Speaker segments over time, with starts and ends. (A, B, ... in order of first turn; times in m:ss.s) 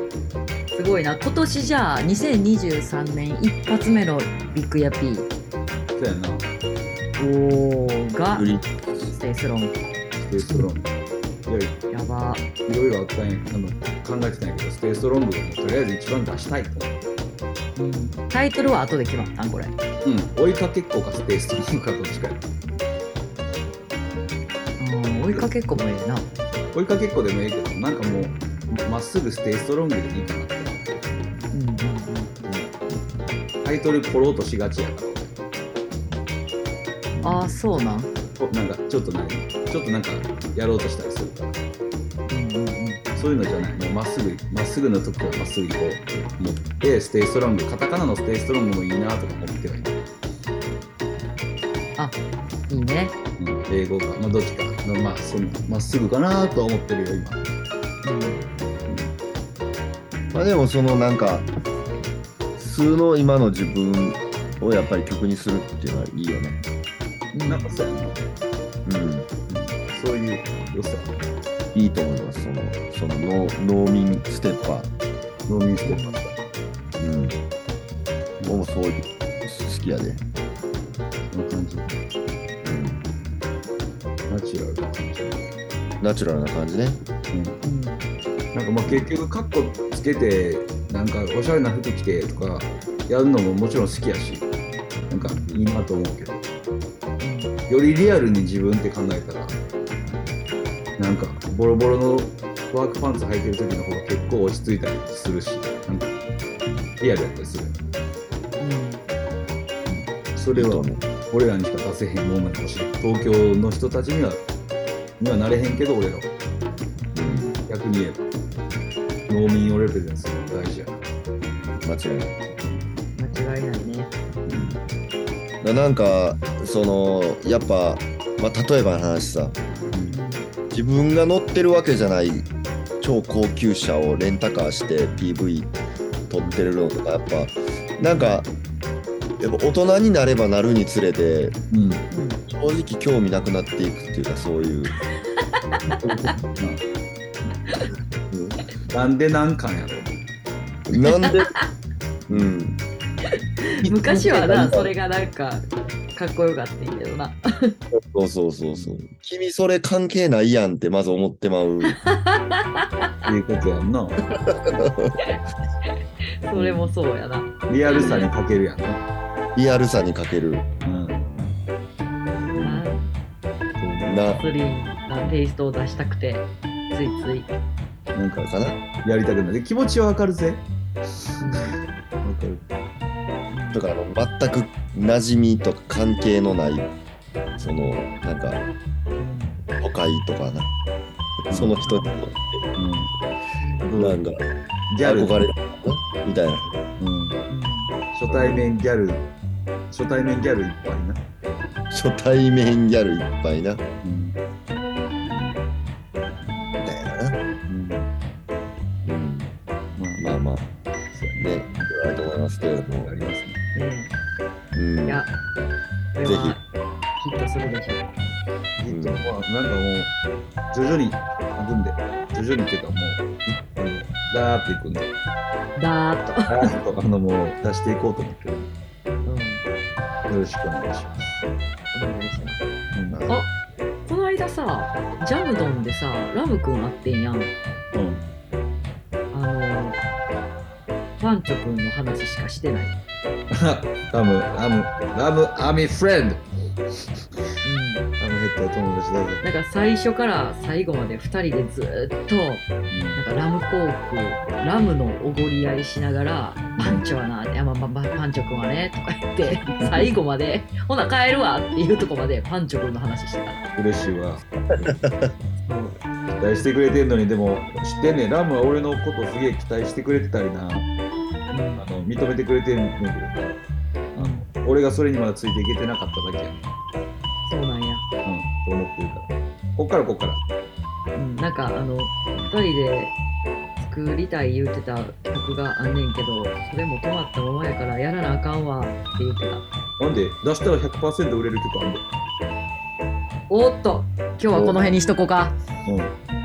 0:00.7-0:05.3 A
0:06.0-0:06.5 B
0:07.2-0:08.5 A
0:08.3-0:09.1 C
0:09.1-0:09.8 A
0:10.2-0:10.9 B
0:11.5-0:11.8 B
0:11.9-0:12.4 A
0:12.6-0:17.0 B
0:17.8-0:19.7 A
0:20.0-0:22.5 B
0:24.8-0:26.3 A
0:26.7-0:31.1 B
0:31.5-0:32.3 A
0:33.6-0:35.4 B
0:37.2-0:38.1 A
0:38.4-0:41.6 B
0:42.3-0:43.0 A
0:43.2-0:50.0 B
0:52.7-0:53.1 A
0:53.4-0:57.4 B
0:58.0-0:58.4 A
1:00.3-1:01.5 C
1:02.6-1:06.6 C
1:07.3-1:07.7 A
1:07.4-1:08.2 B
1:08.8-1:09.3 C
1:09.5-1:11.1 B
1:11.7-1:14.9 C
1:15.5-1:16.4 B
1:15.8-1:16.2 A
1:17.0-1:17.4 C
1:18.4-1:18.6 B
1:18.4-1:20.2 C
1:21.3-1:22.0 B
1:22.6-1:23.0 C
1:24.3-1:25.5 B
1:26.0-1:27.0 C
1:27.3-1:27.6 B
1:27.6-1:28.0 A
1:28.5-1:34.5 B
1:28.8-1:29.1 C
1:35.1-1:36.4 B
1:37.2-1:37.5 A
1:37.7-1:39.6 B
1:41.0-1:46.1 B
1:47.0-1:47.8 B
1:48.6-1:49.0 A
1:49.9-1:54.4 B
1:50.5-1:51.0 C
1:55.2-1:56.3 B
1:57.1-1:57.5 C
1:57.2-1:57.6 A
1:57.6-1:58.2 B
1:59.3-2:01.0 B
2:01.8-2:02.3 C
2:03.2-2:04.1 A
2:04.5-2:04.8 C
2:05.6-2:09.6 C
2:09.9-2:10.2 B
2:10.1-2:10.5 A
2:10.7-2:12.5 C
2:13.0-2:15.7 C
2:16.3-2:18.5 C
2:16.4-2:16.6 B
2:18.0-2:18.4 A
2:19.4-2:21.6 C
2:21.7-2:22.0 B
2:22.1-2:22.4 A
2:22.5-2:24.9 C
2:25.9-2:26.3 A
2:26.6-2:26.8 B
2:28.3-2:28.6 C
2:28.9-2:30.2 B
2:30.9-2:31.5 C
2:31.0-2:31.6 A
2:32.3-2:32.5 B
2:32.3-2:32.8 C
2:33.6-2:37.8 A
2:33.8-2:34.9 C
2:37.9-2:42.0 C
2:38.7-2:39.0 B
2:42.0-2:42.9 A
2:43.2-2:44.2 B
2:44.4-2:45.2 C
2:46.5-2:48.3 A
2:46.6-2:46.9 B
2:47.7-2:49.0 B
2:48.0-2:48.2 C
2:49.5-2:50.7 C
2:50.8-2:51.2 B
2:52.5-2:52.8 C
2:52.6-2:53.1 A
2:53.8-2:54.3 B
2:54.0-2:54.4 C
2:54.3-2:57.5 A
2:58.1-2:58.5 B
2:58.4-2:58.8 C
2:59.0-3:00.6 B
3:01.4-3:02.6 B
3:01.4-3:01.8 A
3:03.5-3:03.8 A
3:03.7-3:06.9 C
3:07.6-3:08.6 C
3:09.2-3:09.6 A
3:09.8-3:10.7 C
3:11.5-3:12.6 C
3:11.5-3:11.8 B
3:11.8-3:12.2 A
3:12.8-3:13.1 B
3:13.6-3:13.9 A
3:13.8-3:14.4 C
3:14.9-3:15.4 B
3:15.0-3:16.7 C
3:17.0-3:17.4 B
3:17.5-3:17.9 A
3:18.1-3:19.2 B
3:18.3-3:18.7 C
3:19.9-3:21.2 B
3:21.9-3:23.8 C
3:24.0-3:24.4 B
3:25.2-3:25.6 B
3:26.8-3:27.4 C
3:27.7-3:28.1 B
3:29.0-3:29.5 C
3:30.0-3:30.3 B
3:30.2-3:30.6 C
3:31.1-3:32.4 B
3:31.4-3:33.2 C
3:33.0-3:33.6 B
3:33.7-3:34.1 A
3:34.7-3:35.2 C
3:36.1-3:36.6 A
3:36.2-3:36.6 C
3:37.2-3:38.1 A
3:38.8-3:40.1 B
3:38.9-3:39.2 C
3:40.7-3:45.1 B
3:45.8-3:46.7 A
3:46.5-3:48.7 B
3:49.2-3:49.6 A
3:50.3-3:51.4 B
3:51.9-3:52.6 A
3:52.9-3:53.2 B
3:53.1-3:53.4 C
3:54.0-3:57.5 A
3:57.9-3:58.2 B
3:59.3-4:00.0 A
4:01.2-4:03.0 A
4:03.5-4:06.5 B
4:07.6-4:08.0 A
4:08.2-4:09.4 B
4:09.4-4:23.6 A
4:12.9-4:13.2 B
4:16.8-4:17.0 B
4:23.8-4:24.4 B
4:24.7-4:25.3 C
4:25.6-4:26.0 A
4:26.4-4:30.9 B
4:31.5-4:31.8 A
4:31.8-4:33.5 B
4:34.1-4:34.4 A
4:34.2-4:36.6 B
4:37.5-4:38.0 A
4:38.2-4:40.4 B
4:41.1-4:43.1 A
4:43.8-4:49.7 A
4:50.0-4:52.0 B
4:53.5-4:55.5 A
4:54.5-4:55.0 B
4:55.8-4:56.1 B